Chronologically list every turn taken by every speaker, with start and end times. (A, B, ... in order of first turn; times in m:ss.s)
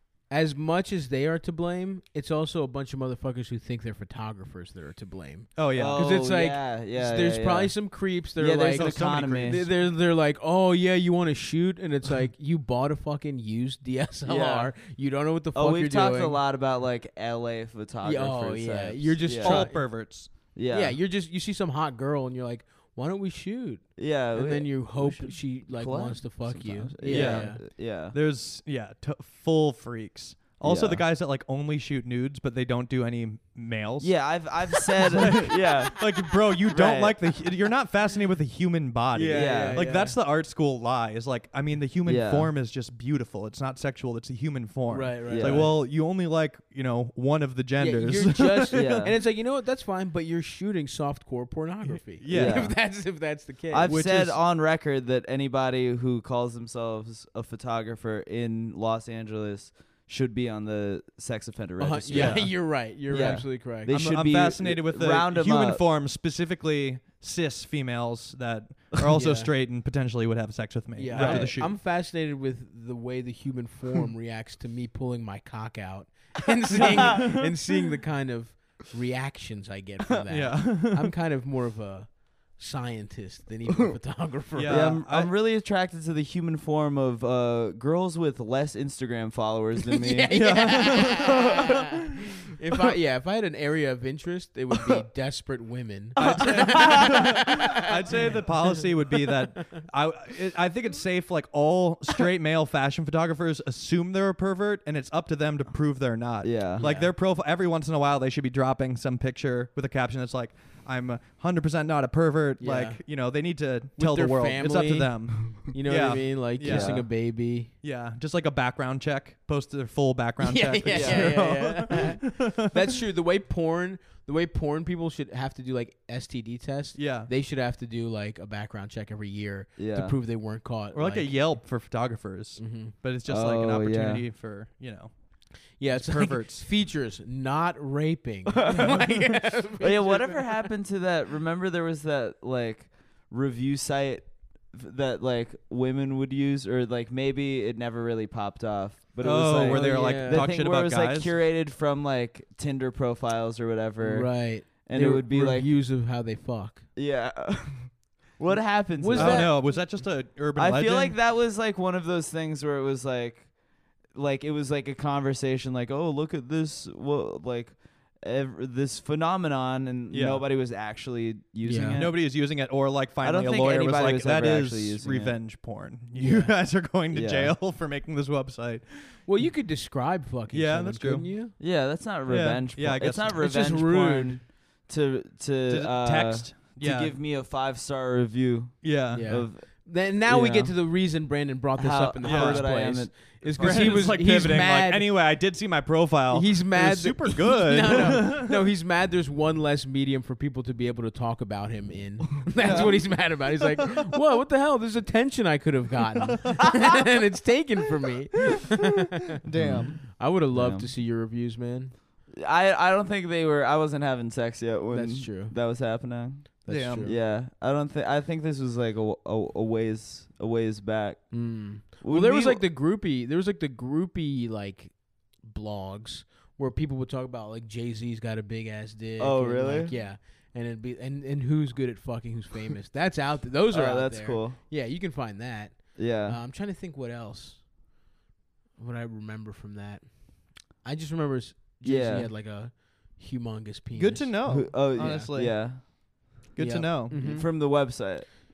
0:00.3-0:16.4 A
0:05.6-0:06.0 B
0:05.8-0:09.6 C
0:08.7-0:09.7 B
0:14.2-0:14.7 C
0:15.5-0:19.9 C
0:18.0-0:19.9 A
0:19.4-0:20.3 B
0:20.5-0:21.0 C
0:20.7-0:27.6 A
0:24.0-0:28.2 C
0:27.0-0:34.4 B
0:30.6-0:31.0 C
0:34.0-0:36.0 C
0:35.0-0:49.0 B
0:36.7-0:37.2 C
0:39.2-0:40.2 A
0:39.2-0:39.8 C
0:42.0-0:42.5 C
0:44.9-0:45.7 A
0:45.3-0:45.7 C
0:47.8-0:54.0 A
0:48.7-0:49.1 C
0:52.2-0:52.7 B
0:52.3-0:52.7 C
0:53.7-1:05.8 C
0:53.9-0:54.4 B
1:01.8-1:03.9 A
1:02.1-1:02.5 B
1:03.9-1:11.7 B
1:09.1-1:09.5 A
1:11.0-1:25.0 A
1:11.1-1:11.5 C
1:16.7-1:17.5 B
1:16.8-1:17.1 C
1:20.3-1:21.1 B
1:24.5-1:25.3 B
1:24.7-1:31.3 C
1:29.9-1:31.8 A
1:30.3-1:31.6 B
1:32.5-1:38.7 A
1:36.2-1:57.1 B
1:36.2-1:37.1 C
1:46.4-1:46.8 C
1:46.8-1:47.1 A
1:52.6-1:53.0 A
1:54.0-1:57.7 A
1:56.6-1:57.0 C
1:57.8-2:02.8 B
2:00.4-2:11.5 A
2:00.9-2:01.4 C
2:07.0-2:07.3 B
2:09.8-2:10.2 C
2:10.9-2:15.1 B
2:12.6-2:12.9 A
2:13.3-2:14.2 C
2:15.8-2:20.6 A
2:15.9-2:16.6 B
2:18.6-2:35.7 C
2:29.2-2:31.3 B
2:29.6-2:30.4 A
2:34.0-2:36.8 A
2:37.0-2:39.6 C
2:39.0-2:39.5 A
2:39.1-2:41.2 B
2:40.6-2:43.5 C
2:44.1-2:52.2 C
2:50.1-2:50.4 B
2:51.6-2:52.0 A
2:52.0-2:59.2 B
2:53.2-2:55.4 C
2:56.2-2:56.5 A
2:57.1-2:57.6 C
2:59.3-3:01.5 A
3:00.5-3:01.3 B
3:01.6-3:10.8 C
3:02.3-3:03.4 B
3:03.4-3:04.4 A
3:05.7-3:07.2 B
3:08.8-3:09.3 B
3:09.1-3:15.1 A
3:11.8-3:14.2 C
3:12.2-3:12.7 B
3:13.6-3:18.5 B
3:16.3-3:29.3 A
3:22.6-3:23.1 C
3:22.6-3:22.9 B
3:29.4-3:30.0 B
3:29.5-3:30.9 C
3:30.0-3:31.9 A
3:32.3-3:42.6 C
3:34.9-3:35.5 A
3:36.6-3:37.2 A
3:36.7-3:37.1 B
3:41.3-3:57.6 A
3:49.2-3:49.9 C
3:53.7-3:54.6 C
3:56.0-3:56.4 C
3:58.8-4:04.3 A
4:01.8-4:02.3 C
4:03.9-4:05.9 B
4:04.4-4:05.8 C
4:06.5-4:07.2 B
4:06.6-4:07.5 A
4:07.1-4:08.3 C